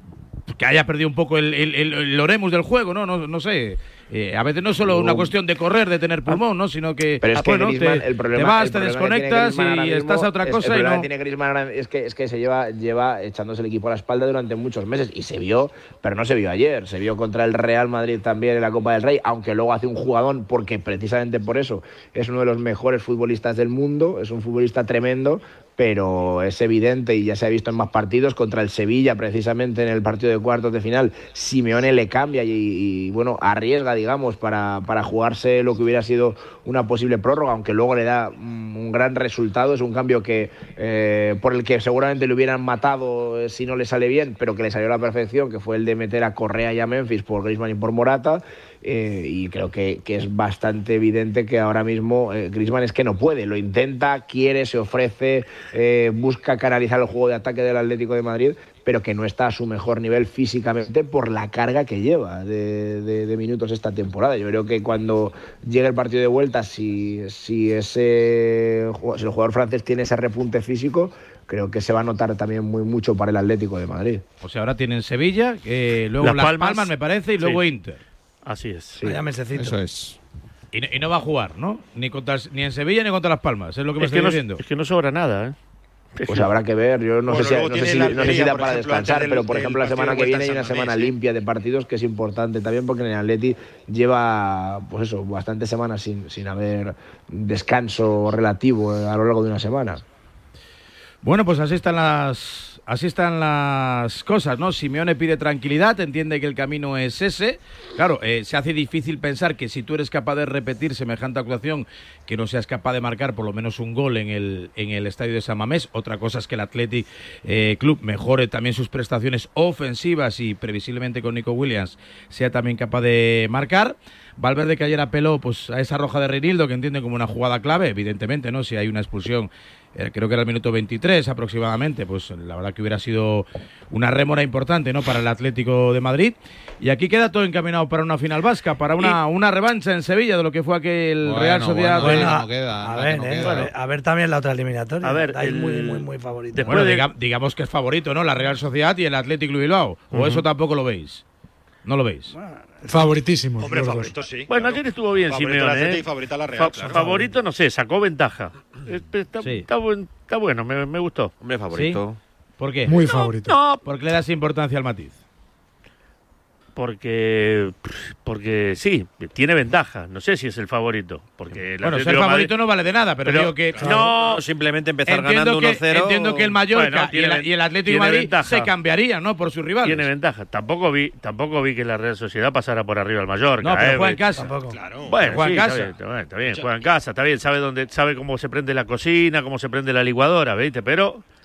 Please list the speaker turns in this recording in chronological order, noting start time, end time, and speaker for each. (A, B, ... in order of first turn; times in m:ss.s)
0:00.5-0:11.1 A
0:04.9-0:05.3 B
0:07.2-1:14.2 B
1:14.4-1:18.0 A
1:16.2-1:17.6 C
1:18.4-1:19.0 C
1:19.0-1:19.8 D
1:19.6-1:20.2 E
1:20.7-1:24.6 A
1:24.0-1:25.6 C
1:26.2-1:26.5 C
1:26.3-1:40.0 B
1:27.3-1:31.1 F
1:41.2-2:22.4 A
2:21.2-2:23.7 E
2:22.0-2:26.7 D
2:25.0-2:26.0 C
2:26.6-2:27.0 C
2:26.6-2:31.2 A
2:30.1-2:30.4 C
2:31.8-2:32.3 A
2:32.3-2:32.9 D
2:32.9-2:34.2 G
2:33.6-2:37.3 F
2:34.5-2:41.3 C
2:39.4-2:39.7 A
2:41.4-2:42.2 H
2:41.7-2:42.0 A
2:42.6-2:42.9 A
2:42.8-2:43.6 G
2:43.0-2:43.8 C
2:43.8-2:45.2 A
2:46.8-2:52.5 C
2:51.8-2:54.0 A
2:53.2-2:54.4 C
2:53.8-2:54.1 G
2:53.9-2:56.6 H
2:55.1-3:00.1 A
2:56.6-2:58.7 C
2:59.8-3:04.2 C
3:03.6-3:04.5 A
3:04.4-3:04.8 D
3:04.7-3:05.4 F
3:05.0-3:11.2 C
3:05.3-3:05.9 A
3:06.4-3:06.7 F